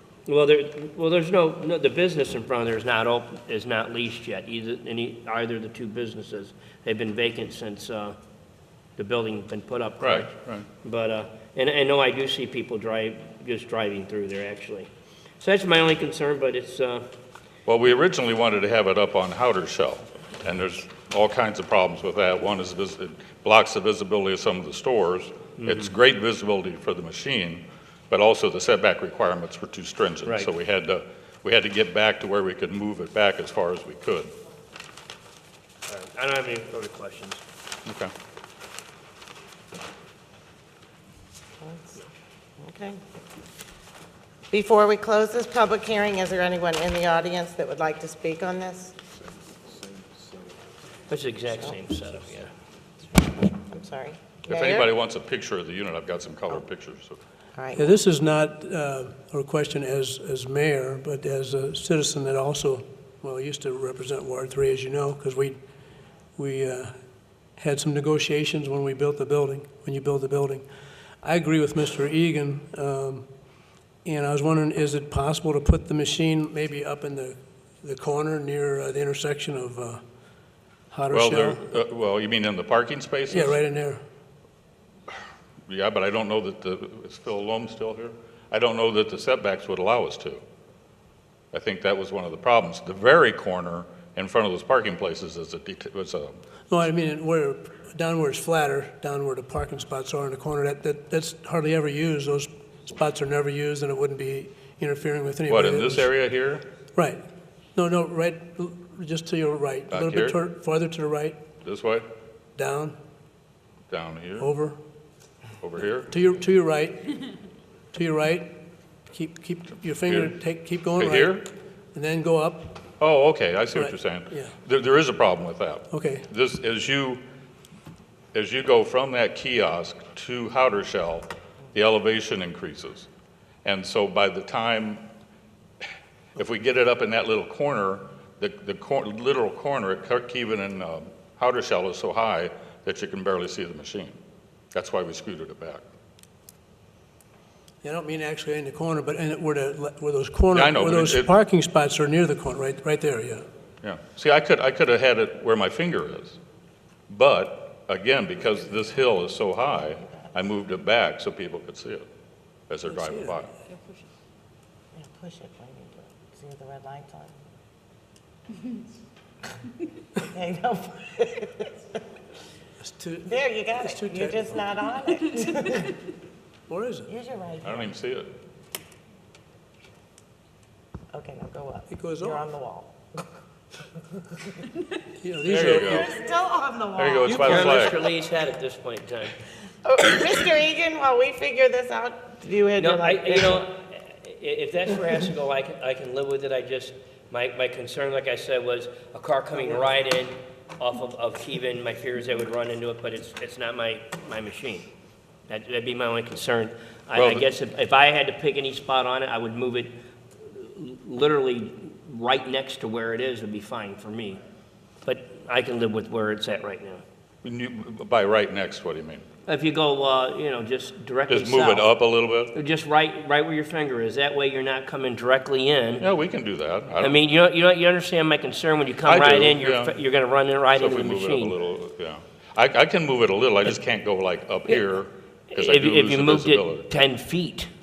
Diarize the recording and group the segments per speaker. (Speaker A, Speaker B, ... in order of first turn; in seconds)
Speaker A: 0.3-8.2, 9.0-14.9, 15.4-17.1, 25.6-25.9, 35.9-37.4, 51.1-52.5, 187.3-189.4, 192.8-204.9, 205.5-214.4, 215.1-217.0, 219.5-221.9, 222.5-226.1, 227.0-231.6, 235.5-237.7
Speaker B: 10.0-10.7, 17.7-34.3, 37.9-38.1, 54.5-57.2, 81.1-83.6, 85.7-90.4, 91.5-96.3, 105.5-106.7, 109.9-110.4, 111.6-112.1, 113.9-114.5, 115.6-116.1, 120.1-120.4, 121.0-121.5, 123.0-127.2, 128.3-133.1, 133.6-135.0, 136.4-144.2, 144.7-145.8, 150.5-151.3, 153.8-156.4, 157.1-162.1, 162.7-163.5, 177.6-178.3, 185.5-186.1, 187.0-188.1, 207.2-207.5, 217.4-219.3, 221.3-222.5, 226.0-227.2, 229.1-229.9, 230.8-236.9
Speaker C: 41.6-42.0, 42.6-43.0, 44.5-49.0, 53.0-54.9, 57.5-57.9, 164.9-167.4, 170.2-171.8, 173.3-176.0, 177.1-177.8, 181.1-182.9, 186.0-187.6, 189.8-193.7
Speaker D: 57.8-65.6, 66.4-66.9, 67.6-70.7, 71.2-73.3, 74.0-80.0, 80.9-81.8, 83.3-84.0, 96.7-106.1, 107.0-107.2, 107.8-111.4, 112.6-113.0, 114.4-114.8, 116.1-117.3, 117.9-118.6, 119.1-121.4, 121.9-122.8, 123.7-124.5, 125.9-126.3, 147.8-153.4, 162.9-163.4, 172.8-174.6, 176.7-177.1, 181.9-182.4, 185.2-186.2